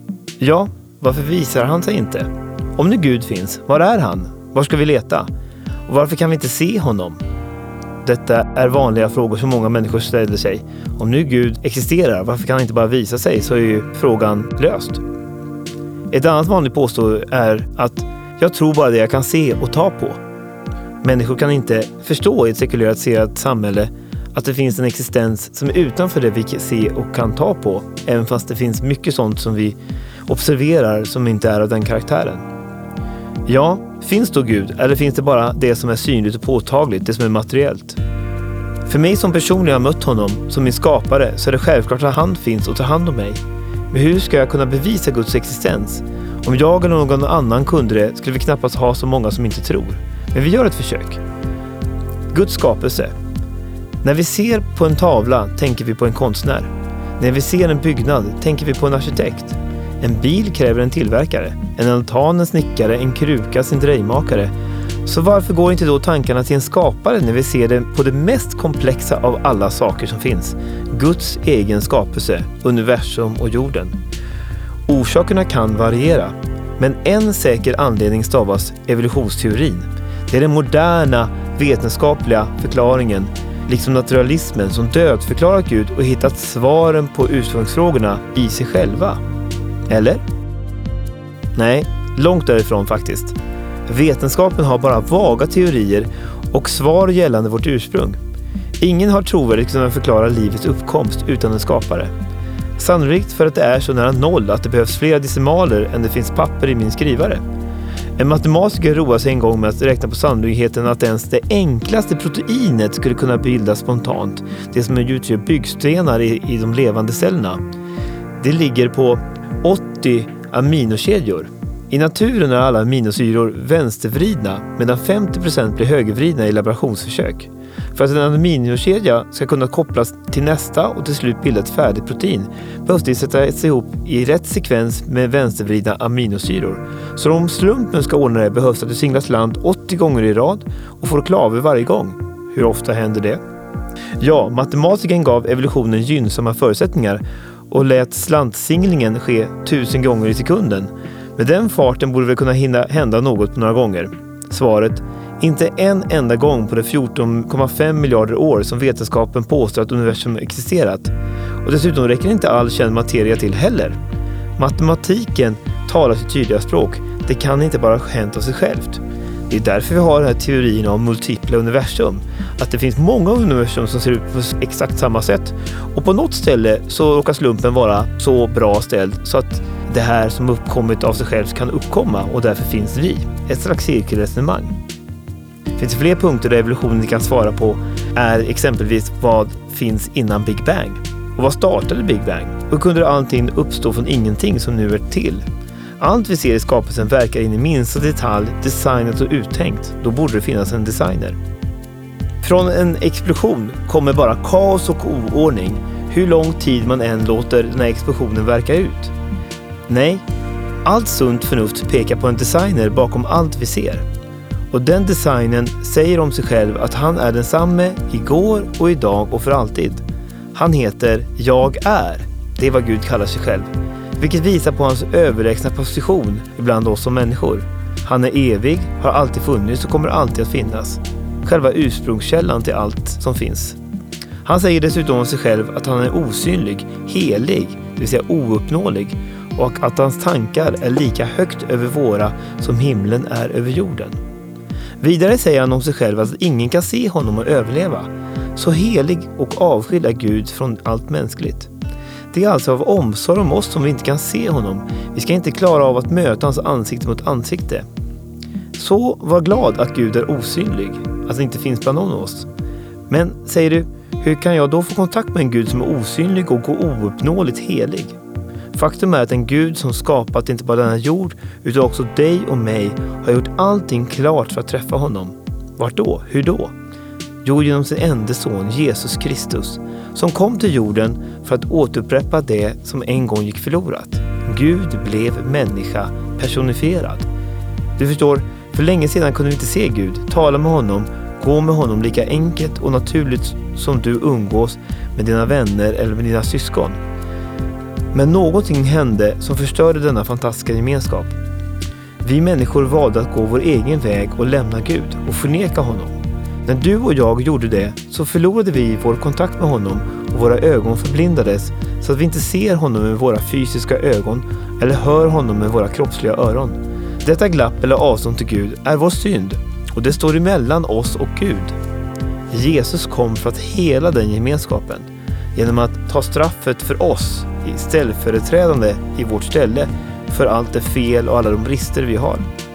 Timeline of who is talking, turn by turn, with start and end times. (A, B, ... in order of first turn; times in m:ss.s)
0:00.4-0:05.3 A
0:05.9-0:07.2 A
0:08.0-0:15.0 A
0:16.1-0:20.2 A
0:21.0-0:32.4 A
0:33.5-0:38.0 A
0:38.9-0:51.2 A
0:52.3-0:53.1 A
0:54.0-1:04.5 A
1:05.0-1:14.0 A
1:14.9-1:29.2 A
1:29.9-1:30.2 A
1:31.5-1:38.2 A
1:38.8-1:42.1 A
1:42.8-1:47.4 A
1:48.2-1:57.6 A
1:58.4-2:23.4 A
2:24.2-2:44.0 A
2:44.6-3:04.8 A
3:05.8-3:15.4 A
3:16.0-3:21.4 A
3:22.4-3:29.1 A
3:29.9-3:30.2 A
3:30.8-3:34.0 A
3:34.7-3:53.8 A
3:54.4-4:04.2 A
4:05.0-4:11.7 A
4:12.3-4:17.8 A
4:18.7-4:22.5 A
4:23.1-4:28.2 A
4:28.7-4:36.7 A
4:37.4-4:47.3 A
4:48.0-4:57.0 A
4:58.1-5:01.4 A
5:02.2-5:21.8 A
5:22.5-5:32.5 A